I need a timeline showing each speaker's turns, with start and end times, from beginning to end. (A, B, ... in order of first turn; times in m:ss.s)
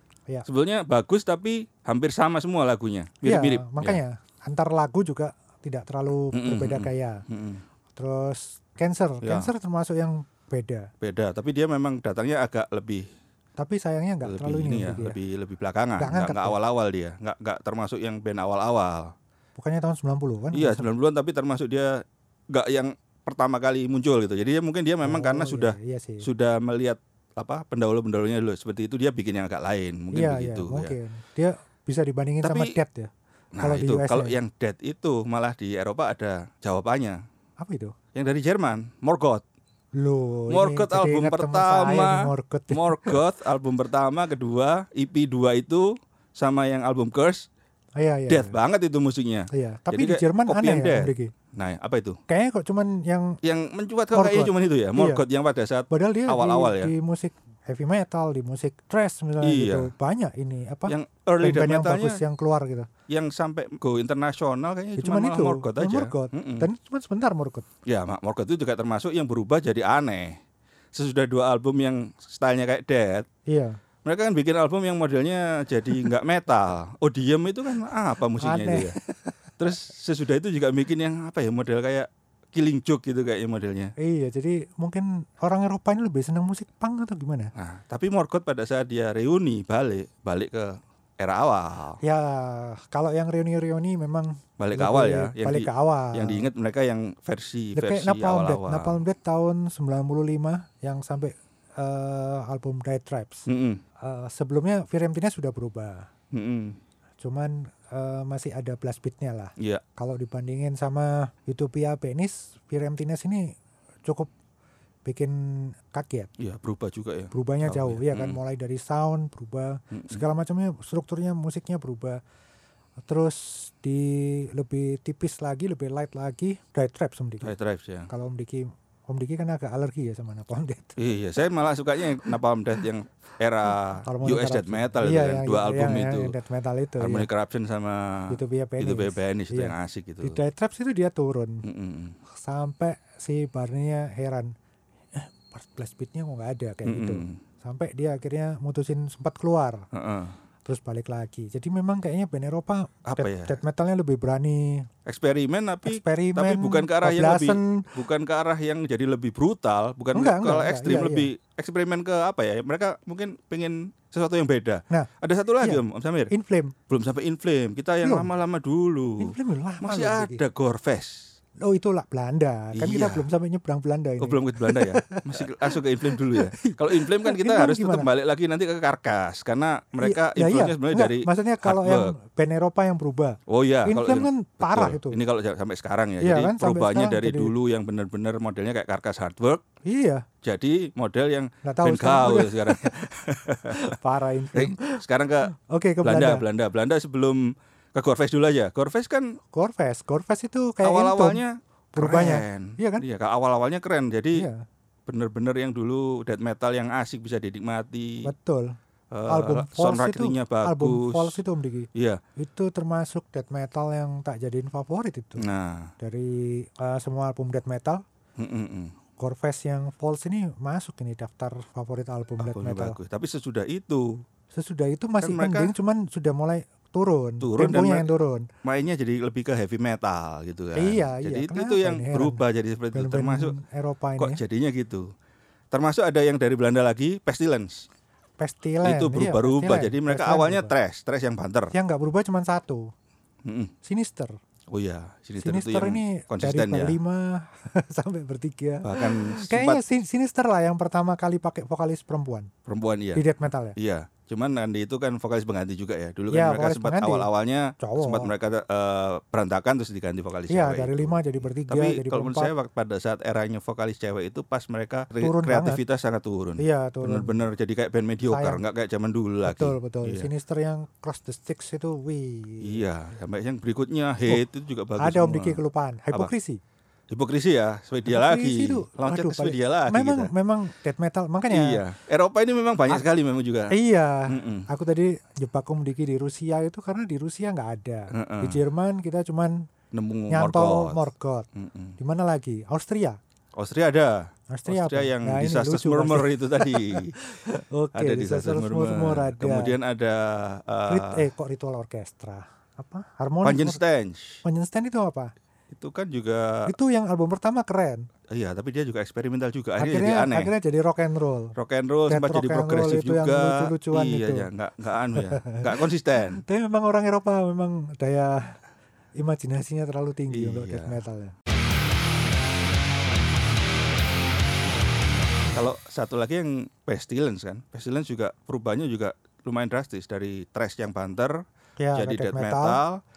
0:00.5-0:04.0 A
0:03.2-0:07.2 B
0:06.3-0:07.6 A
0:08.0-0:10.9 B
0:09.2-0:09.5 A
0:11.0-0:13.1 A
0:13.6-0:15.2 B
0:14.2-0:19.1 A
0:16.0-0:16.6 B
0:19.6-0:20.9 B
0:20.5-0:31.0 A
0:25.0-0:26.3 B
0:30.1-0:33.1 B
0:32.4-0:32.8 A
0:33.6-0:37.2 A
0:33.6-0:34.4 B
0:37.6-0:38.0 B
0:38.1-0:39.4 A
0:40.0-0:43.2 B
0:40.5-0:47.5 A
0:48.0-0:48.6 B
0:48.3-0:52.2 A
0:49.5-0:51.3 B
0:52.3-0:53.4 B
0:53.4-0:56.9 A
0:54.1-0:55.2 B
0:55.9-1:02.9 B
0:59.4-0:59.9 A
1:00.9-1:02.2 A
1:03.1-1:06.7 A
1:05.0-1:07.7 B
1:07.9-1:10.4 A
1:10.9-1:13.3 A
1:13.5-1:13.8 B
1:14.0-1:19.0 A
1:18.4-1:19.4 B
1:19.6-1:23.9 A
1:24.0-1:27.5 B
1:27.6-1:32.0 A
1:32.0-1:36.5 B
1:34.6-1:39.0 A
1:37.8-1:43.5 B
1:43.5-1:43.8 A
1:44.0-1:46.1 B
1:46.3-1:46.8 A
1:47.2-1:54.3 B
1:55.1-1:56.3 B
1:56.4-1:58.4 A
1:57.3-2:02.2 B
1:59.9-2:00.2 A
2:03.1-2:07.6 B
2:07.4-2:08.1 A
2:08.1-2:11.0 B
2:11.0-2:16.3 A
2:14.0-2:17.3 B
2:17.0-2:20.4 A
2:18.3-2:21.7 B
2:21.6-2:22.2 A
2:22.3-2:24.5 B
2:25.1-2:29.9 B
2:26.8-2:27.4 A
2:29.9-2:30.4 A
2:30.7-2:34.9 B
2:33.0-2:33.6 A
2:35.0-2:46.3 A
2:35.8-2:37.9 B
2:40.1-2:41.3 B
2:45.6-2:46.8 B
2:46.9-2:51.2 A
2:48.0-2:48.3 B
2:49.2-2:50.4 B
2:51.6-2:58.1 B
2:52.7-2:53.3 A
2:54.2-3:02.1 A
3:00.0-3:05.2 B
3:03.5-3:09.6 A
3:06.2-3:07.5 B
3:09.9-3:10.2 B
3:10.4-3:14.0 A
3:11.6-3:13.0 B
3:13.7-3:16.4 B
3:14.5-3:15.5 A
3:16.0-3:19.4 A
3:19.5-3:21.4 B
3:20.8-3:24.5 A
3:22.0-3:23.0 B
3:24.4-3:24.6 B
3:25.1-3:28.3 A
3:28.2-3:28.8 B
3:29.1-3:31.4 A
3:29.3-3:35.4 B
3:31.9-3:32.2 A
3:35.4-3:35.9 A
3:36.0-3:38.0 B
3:38.4-3:38.9 A
3:39.2-3:43.0 B
3:42.4-3:44.2 A
3:44.5-3:48.5 B
3:45.2-3:45.7 A
3:47.4-3:48.1 A
3:48.6-3:53.6 A
3:50.8-3:52.4 B
3:52.9-3:54.4 B
3:54.2-3:55.1 A
3:55.7-3:57.8 A
3:58.4-4:00.7 B
3:58.8-4:01.7 A
4:01.7-4:02.9 B
4:03.4-4:03.7 A
4:03.8-4:04.4 B
4:04.7-4:07.0 A
4:05.4-4:12.5 B
4:08.8-4:09.8 A
4:12.7-4:30.3 A
4:13.2-4:13.8 B
4:16.3-4:17.3 B
4:17.8-4:18.3 B
4:20.5-4:22.5 B
4:25.2-4:25.8 B
4:26.6-4:27.4 B
4:28.3-4:28.6 B
4:29.4-4:32.8 B
4:32.6-4:35.6 A
4:35.0-4:36.6 B
4:37.1-4:40.3 A
4:38.1-4:41.8 B
4:41.5-4:43.7 A
4:43.7-4:49.7 B
4:44.3-4:44.7 A
4:48.1-4:48.6 A
4:49.9-4:51.0 A
4:50.3-4:51.5 B
4:51.6-4:52.0 A
4:52.0-4:53.2 B
4:53.6-5:01.3 A
4:54.5-4:59.8 B
5:00.9-5:03.8 B
5:03.4-5:04.4 A
5:04.4-5:05.3 B
5:05.7-5:06.7 A
5:06.7-5:08.1 B
5:08.3-5:10.5 A
5:09.8-5:11.6 B
5:11.6-5:16.4 A
5:12.1-5:14.5 B
5:15.1-5:18.6 B
5:19.2-5:21.4 B
5:20.3-5:21.0 A
5:25.5-5:31.4 A
5:31.8-5:32.8 B
5:31.9-5:33.0 A